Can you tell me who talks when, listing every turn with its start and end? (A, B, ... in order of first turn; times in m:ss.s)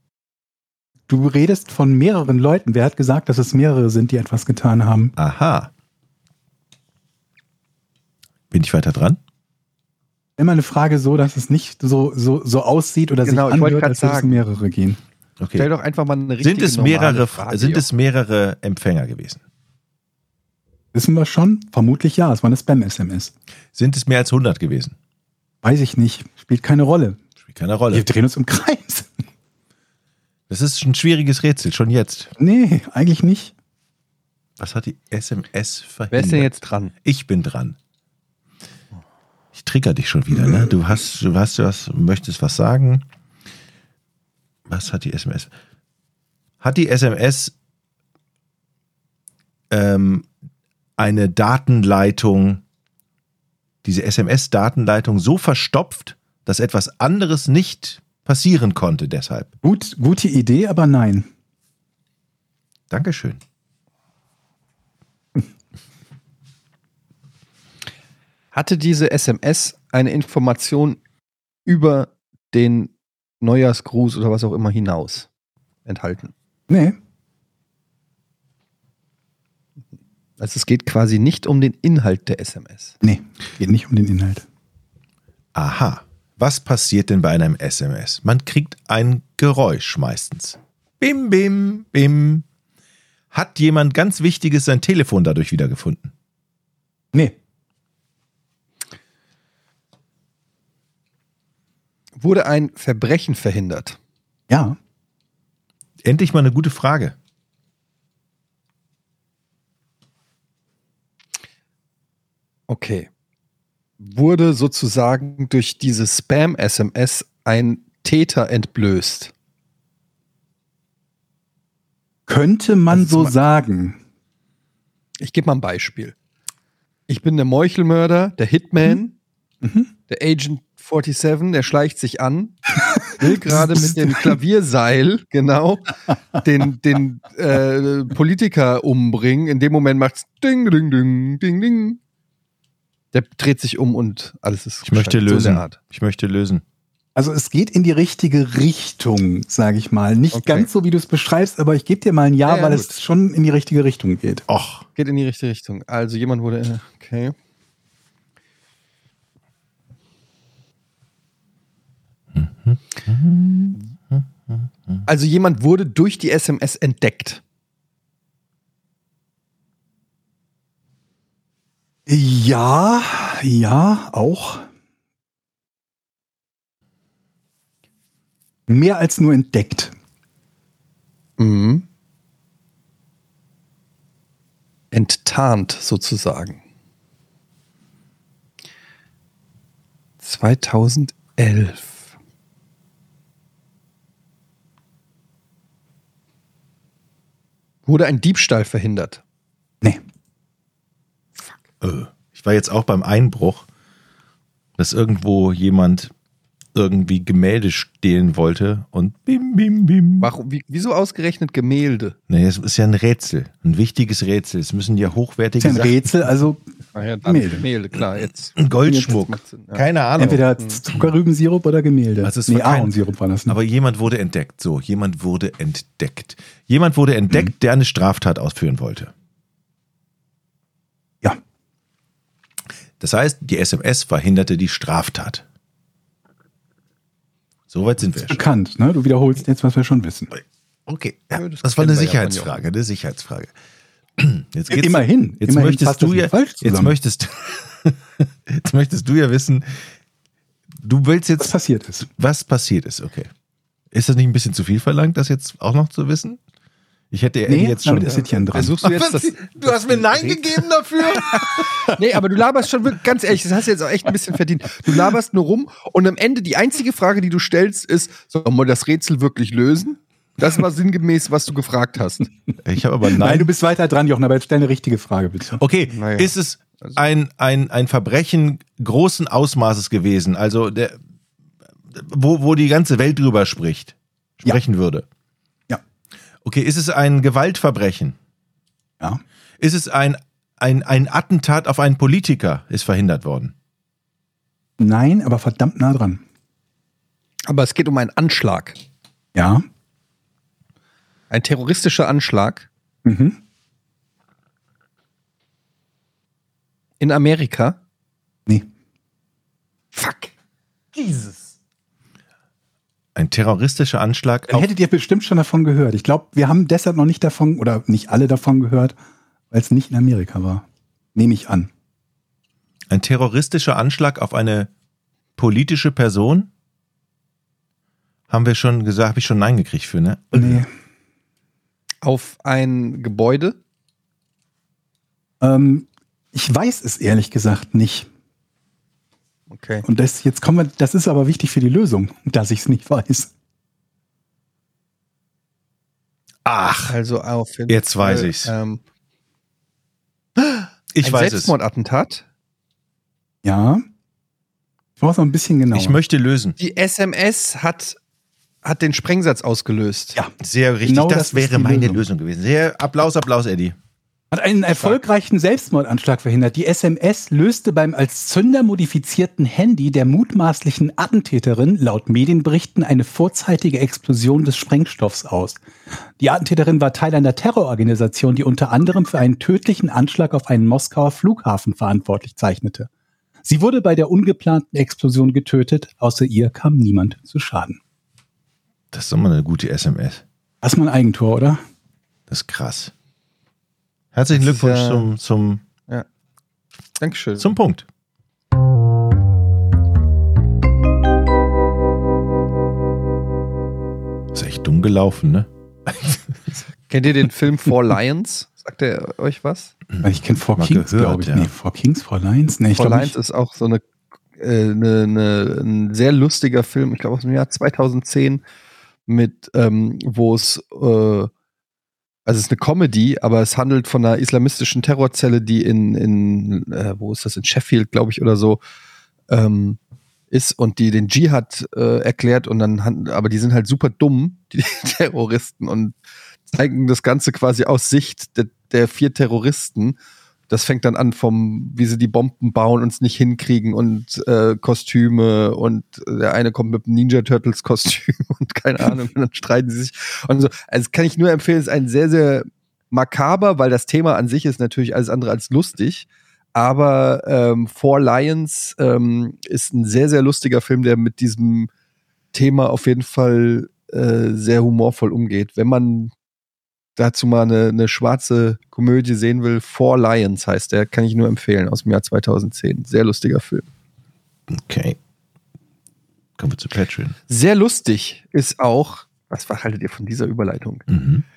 0:01.1-0:05.1 A
0:05.2-0:05.7 B
0:08.5-0:09.2 B
0:10.4-0:15.0 A
0:13.2-0:14.4 C
0:15.4-0:15.7 B
0:15.6-0:17.9 C
0:16.4-0:19.4 B
0:20.9-0:23.3 A
0:23.7-0:25.0 B
0:25.6-0:27.2 A
0:27.4-0:28.1 B
0:27.9-0:29.1 A
0:30.5-0:32.3 B
0:32.4-0:33.5 A
0:34.6-0:37.8 B
0:36.1-0:36.9 C
0:39.5-0:43.0 B
0:44.7-0:45.5 B
0:46.6-0:47.6 B
0:49.7-0:50.3 B
0:51.0-0:52.6 B
0:53.8-0:59.5 B
0:59.6-1:01.3 A
1:02.9-1:03.4 B
1:08.5-1:11.0 C
1:11.7-1:15.3 C
1:15.9-1:16.3 C
1:16.7-1:17.0 A
1:20.4-1:23.0 C
1:23.0-1:24.4 A
1:25.6-1:32.4 B
1:33.3-1:36.1 B
1:42.2-1:44.0 C
1:44.5-1:44.8 A
1:46.0-1:47.2 B
1:52.7-1:53.1 C
1:54.0-1:59.3 C
2:02.3-2:04.0 A
2:02.9-2:03.3 C
2:05.2-2:06.2 C
2:07.1-2:09.2 C
2:09.6-2:09.9 A
2:10.1-2:22.0 C
2:13.1-2:14.4 A
2:23.1-2:25.8 C
2:24.8-2:26.6 B
2:27.2-2:34.4 A
2:30.3-2:30.7 C
2:32.5-2:33.0 C
2:34.5-2:34.9 B
2:35.0-2:37.4 C
2:42.3-2:45.1 B
2:45.1-2:47.4 C
2:52.1-2:54.7 A
2:58.7-2:59.9 A
3:01.4-3:01.8 C
3:04.9-3:06.6 C
3:10.2-3:12.0 C
3:17.9-3:19.2 C
3:21.8-3:23.7 B
3:24.8-3:26.1 B
3:26.7-3:30.3 B
3:30.2-3:32.2 C
3:32.3-3:36.3 B
3:35.6-3:36.6 A
3:37.0-3:39.8 C
3:37.3-3:37.6 A
3:38.6-3:41.0 B
3:40.2-3:43.6 A
3:42.2-3:43.0 B
3:43.5-3:49.1 B
3:53.0-3:55.4 B
3:57.7-3:58.4 B
3:58.2-4:00.3 A
4:00.4-4:03.5 B
4:01.3-4:02.6 C
4:04.2-4:09.9 B
4:04.7-4:07.0 A
4:10.8-4:11.5 B
4:11.4-4:12.1 A
4:12.2-4:13.3 B
4:13.9-4:16.4 B
4:17.1-4:21.8 B
4:17.5-4:18.8 A
4:18.5-4:32.3 C
4:32.6-4:33.5 B
4:33.2-4:35.6 A
4:35.6-4:41.0 B
4:35.9-4:37.0 C
4:41.9-4:45.0 B
4:46.4-4:48.2 B
4:49.6-4:53.5 B
4:54.8-4:56.2 A
4:57.5-4:58.8 C
4:59.4-4:59.6 A
5:01.3-5:02.7 C
5:03.0-5:03.4 A
5:07.0-5:07.8 C
5:09.9-5:10.3 C
5:10.9-5:11.5 C
5:13.2-5:14.7 B
5:14.5-5:19.0 A
5:19.5-5:21.7 A
5:22.9-5:24.7 B
5:25.4-5:26.5 B
5:28.3-5:30.6 B
5:30.4-5:30.7 A
5:32.0-5:33.6 C
5:35.4-5:38.1 A
5:39.5-5:39.8 C
5:39.8-5:43.3 A
5:46.4-5:47.0 B
5:46.9-5:48.8 C
5:47.7-5:48.5 B
5:50.9-5:51.5 B
5:51.0-5:52.2 C
5:53.4-5:53.8 A
5:55.0-5:56.0 A
5:55.7-5:56.6 B
5:56.6-5:58.0 C
5:58.6-6:00.2 C
6:00.4-6:03.8 B
6:00.8-6:02.0 A
6:04.3-6:15.6 A
6:16.2-6:22.9 A
6:23.4-6:27.8 A
6:28.9-6:30.2 B
6:30.6-6:31.6 A
6:32.3-6:32.9 B
6:34.1-6:35.6 B
6:34.3-6:35.1 C
6:37.0-6:37.5 C
6:37.4-6:37.9 B
6:44.3-6:46.3 B
6:46.9-6:49.7 C
6:49.9-6:51.5 B
6:50.0-6:53.2 A
6:52.7-6:53.8 C
6:54.4-6:58.4 C
6:59.1-7:01.3 C
7:02.3-7:08.6 C
7:09.3-7:09.8 C
7:10.3-7:15.9 C
7:16.5-7:20.0 C
7:20.5-7:41.7 C
7:42.3-7:46.1 C
7:47.0-7:53.7 C
7:54.5-7:55.0 B
7:56.4-7:57.2 B
7:57.3-8:00.9 C
8:00.9-8:01.2 B